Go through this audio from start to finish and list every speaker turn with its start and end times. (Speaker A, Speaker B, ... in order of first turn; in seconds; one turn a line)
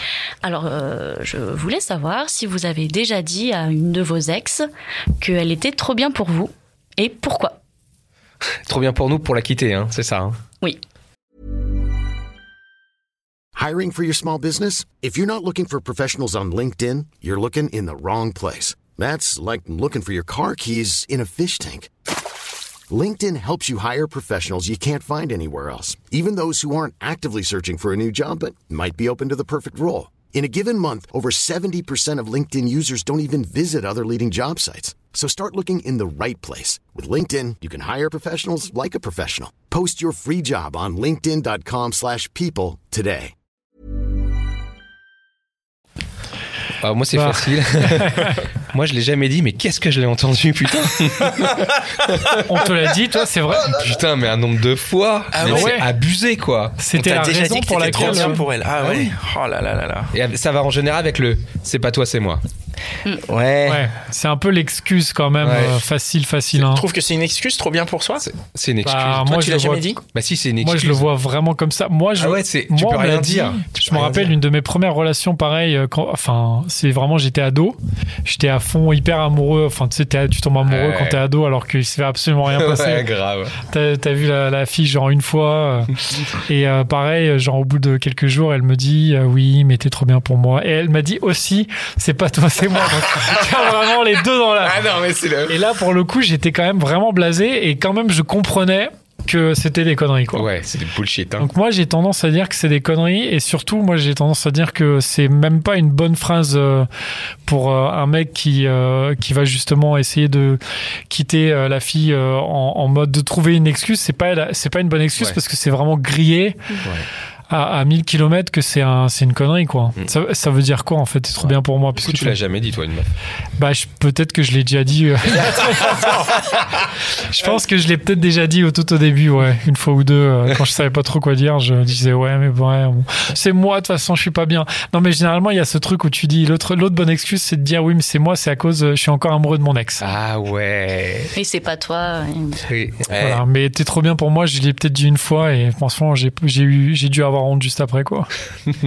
Speaker A: 0.4-4.7
Speaker A: 5.2-7.6
Speaker B: 8.7-10.4
Speaker C: 13.6-21.9
Speaker C: 22.9-43.3
Speaker B: 46.8-52.5
Speaker D: 47.1-48.4
Speaker D: 52.4-53.8
Speaker B: 53.6-56.8
Speaker E: 55.3-55.8
Speaker D: 55.4-55.9
Speaker D: 56.8-58.5
Speaker E: 56.9-60.1
Speaker B: 58.8-59.1
Speaker B: 60.1-62.4
Speaker E: 63.2-63.9
Speaker D: 63.6-66.8
Speaker B: 65.4-65.8
Speaker E: 66.5-68.3
Speaker B: 68.2-69.3
Speaker D: 68.8-70.0
Speaker E: 69.1-70.0
Speaker B: 70.0-71.1
Speaker D: 70.6-83.1
Speaker B: 72.2-74.4
Speaker B: 80.6-81.3
Speaker B: 82.5-83.6
Speaker D: 83.6-85.9
Speaker D: 86.5-94.9
Speaker B: 92.7-93.8
Speaker B: 94.6-95.6
Speaker D: 95.5-100.5
Speaker B: 100.3-101.5
Speaker D: 101.4-106.9
Speaker D: 107.5-116.6
Speaker D: 117.5-122.4
Speaker B: 121.4-123.1
Speaker D: 123.6-126.6
Speaker B: 125.4-126.1
Speaker D: 127.2-140.1
Speaker B: 140.0-141.3
Speaker A: 141.4-142.6
Speaker B: 142.7-143.4
Speaker D: 143.1-148.3